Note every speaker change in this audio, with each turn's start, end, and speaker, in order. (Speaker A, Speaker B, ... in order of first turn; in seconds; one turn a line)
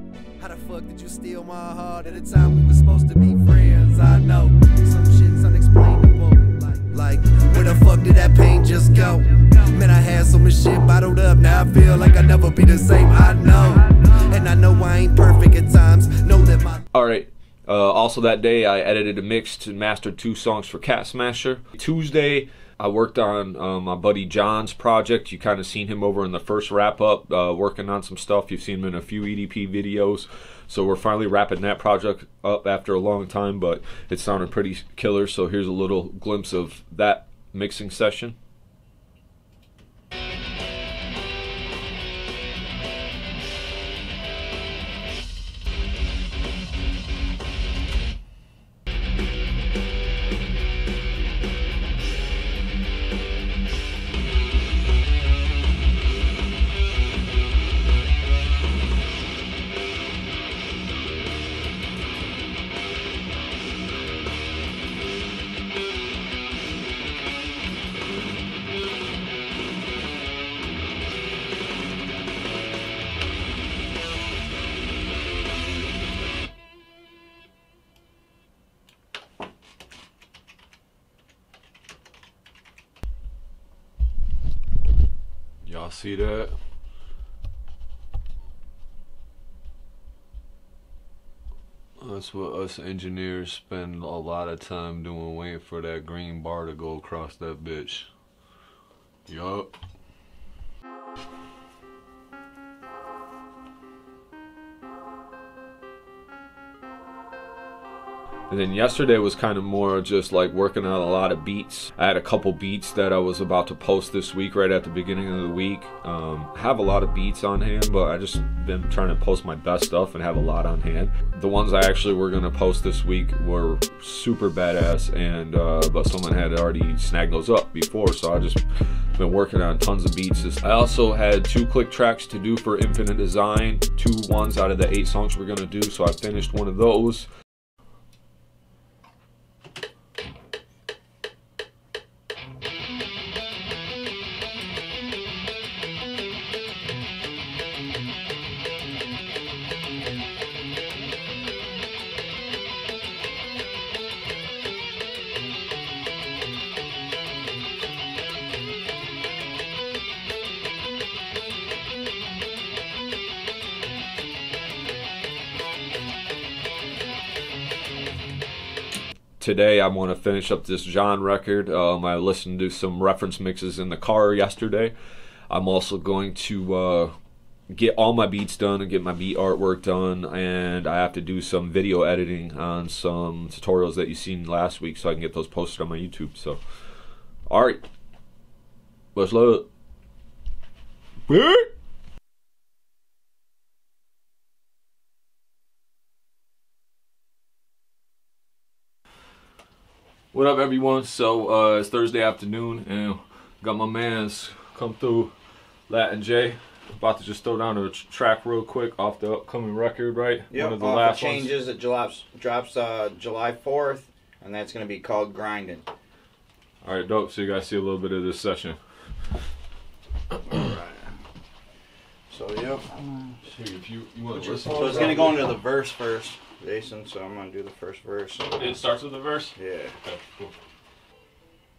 Speaker A: 0.4-16.8
Speaker B: 16.9-38.4
Speaker B: 85.6-86.6
Speaker B: 92.0-98.1
Speaker B: 99.3-99.7
Speaker B: 108.5-128.6
Speaker B: 129.2-137.3
Speaker B: 169.4-174.9
Speaker B: 175.5-177.1
Speaker B: 177.7-186.6
Speaker B: 187.5-187.8
Speaker B: 189.2-189.7
Speaker B: 191.3-191.7
Speaker B: 200.3-205.3
Speaker B: 205.9-211.6
Speaker C: 210.5-215.9
Speaker B: 216.8-218.8
Speaker C: 220.5-221.1
Speaker C: 222.3-223.3
Speaker B: 223.4-225.6
Speaker C: 224.3-228.8
Speaker B: 228.6-230.5
Speaker C: 229.6-229.9